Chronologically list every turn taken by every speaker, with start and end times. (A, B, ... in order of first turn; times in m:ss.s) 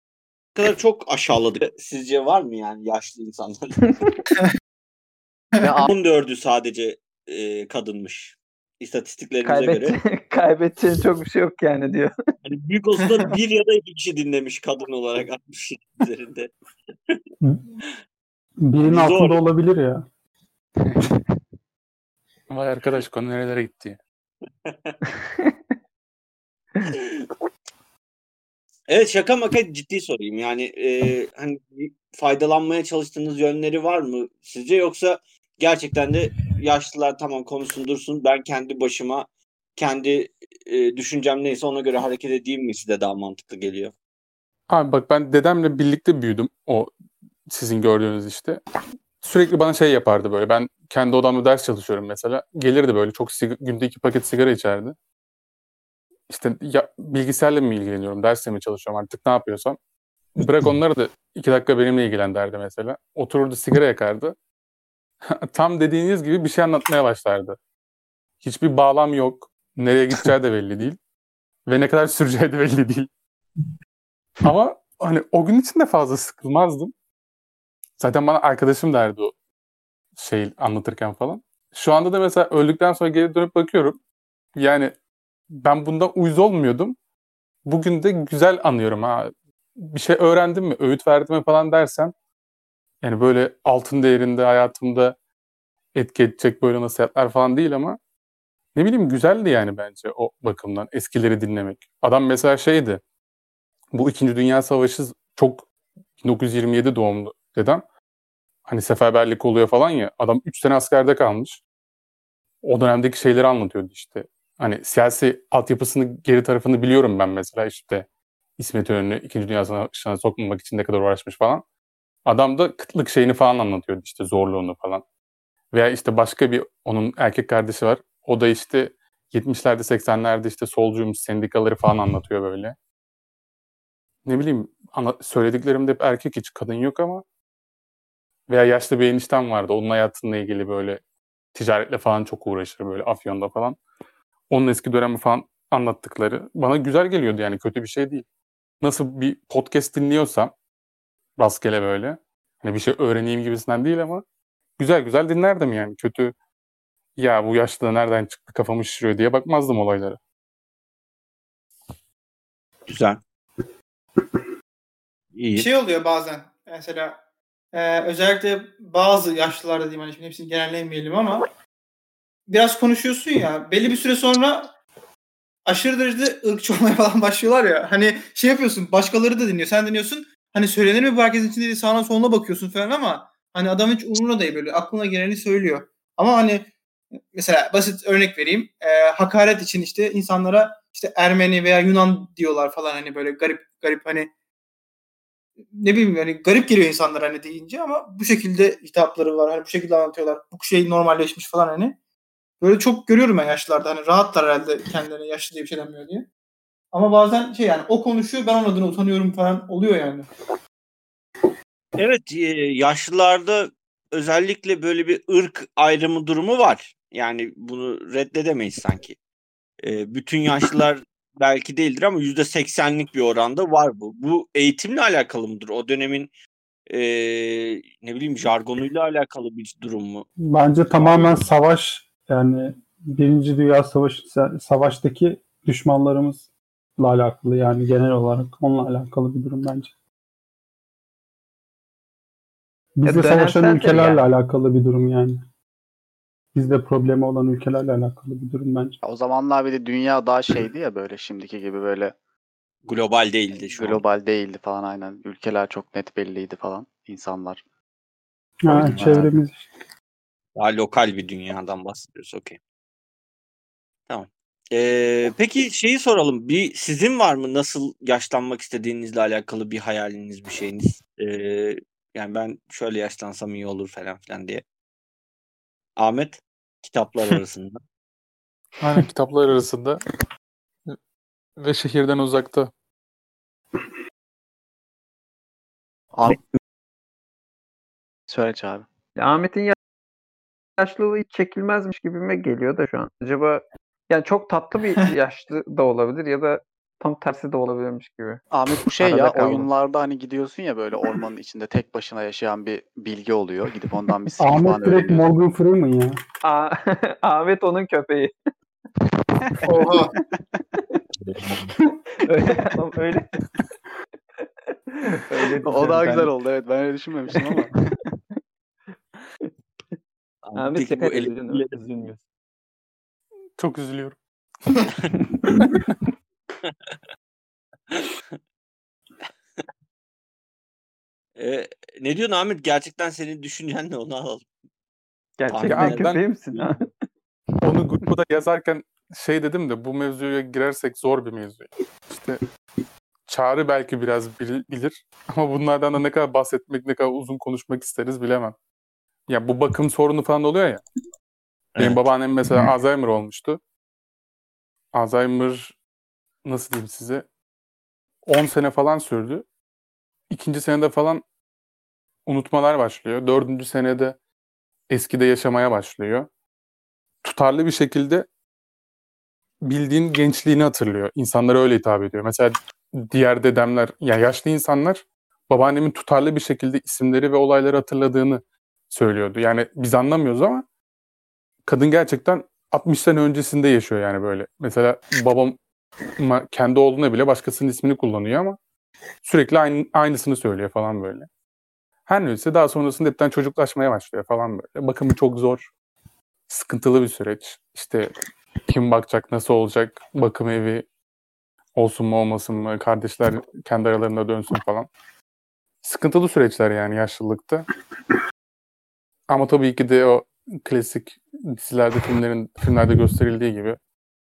0:00.6-0:03.9 A
0:05.6-0:05.9 B
0:05.8-0:10.0 A
0:09.4-0:12.1 C
0:12.4-0:16.5 A
0:18.6-0:20.0 D
0:18.8-0:19.4 A
0:20.9-0:21.1 B
0:22.5-0:24.0 E
0:24.6-0:25.0 A
0:26.9-0:27.3 A
0:28.9-0:43.9 A
0:44.7-0:46.9 E
0:47.5-0:48.6 E
0:49.2-0:55.0 E
0:56.3-0:59.8 E
1:00.4-1:04.4 E
1:05.4-1:07.6 E
1:08.4-1:11.0 E
1:11.7-1:13.1 E
1:14.4-1:16.9 E
1:18.0-1:19.4 E
1:20.2-1:24.0 E
1:24.6-1:24.9 E
1:25.6-1:27.0 E
1:27.7-1:29.3 E
1:29.9-1:32.1 E
1:33.0-1:35.2 E
1:36.0-1:38.0 E
1:38.8-1:43.0 E
1:43.9-1:45.7 E
1:46.2-1:47.8 E
1:48.7-1:51.6 E
1:52.6-2:01.6 E
2:02.3-2:05.0 E
2:05.7-2:12.8 E
2:14.3-2:17.2 E
2:18.5-2:21.0 E
2:21.5-2:23.8 E
2:24.5-2:28.3 E
2:28.8-2:30.5 E
2:31.4-2:34.2 E
2:34.8-2:36.4 E
2:37.2-2:40.2 E
2:42.9-2:43.2 A
2:45.4-2:45.7 A
2:45.6-2:47.2 F
2:47.7-2:51.5 F
2:52.5-2:54.7 F
2:55.7-3:06.7 F
3:07.3-3:14.3 F
3:15.7-3:22.0 F
3:22.6-3:26.3 F
3:26.9-3:30.3 F
3:32.0-3:39.2 A
3:39.8-3:46.3 A
3:46.9-3:50.3 A
3:50.4-3:56.5 D
3:51.0-3:51.3 A
3:57.0-3:59.9 D
4:03.0-4:05.4 D
4:03.1-4:04.2 C
4:06.5-4:09.0 D
4:09.0-4:12.1 B
4:12.8-4:14.0 A
4:13.7-4:17.6 B
4:18.6-4:19.7 D
4:18.7-4:19.3 B
4:20.6-4:22.6 A
4:24.1-4:34.6 A
4:36.0-4:37.8 A
4:38.8-4:40.0 E
4:41.6-4:42.7 E
4:46.1-4:46.4 B
4:48.3-4:48.9 B
4:49.2-4:49.8 C
4:50.8-4:58.4 C
4:58.5-5:05.2 B
4:59.0-4:59.7 C
5:04.4-5:06.2 D
5:06.4-5:08.3 C
5:09.6-5:10.1 F
5:11.2-5:11.7 A
5:12.2-5:13.3 C
5:15.0-5:16.3 C
5:15.6-5:17.7 B
5:20.4-5:21.8 A
5:20.6-5:22.2 C
5:23.6-5:24.2 E
5:25.4-5:25.9 E
5:31.4-5:34.5 A
5:35.4-5:36.9 C
5:35.5-5:36.8 A
5:35.7-5:36.2 E
5:37.6-5:42.4 E
5:43.3-5:48.6 E
5:49.3-5:50.8 E
5:51.8-5:52.0 A
5:51.8-5:53.6 E
5:54.9-5:55.8 E
5:56.4-5:57.2 E
5:58.3-5:59.5 E
6:00.3-6:01.2 E
6:02.3-6:04.2 E
6:04.9-6:06.3 E
6:07.2-6:08.3 E
6:09.6-6:20.7 E
6:21.7-6:25.6 E
6:26.2-6:28.6 E
6:29.2-6:31.3 E
6:32.1-6:35.7 E
6:36.5-6:38.1 E
6:38.7-6:40.9 E
6:41.8-6:44.9 E
6:45.8-6:47.7 E
6:49.3-6:53.8 E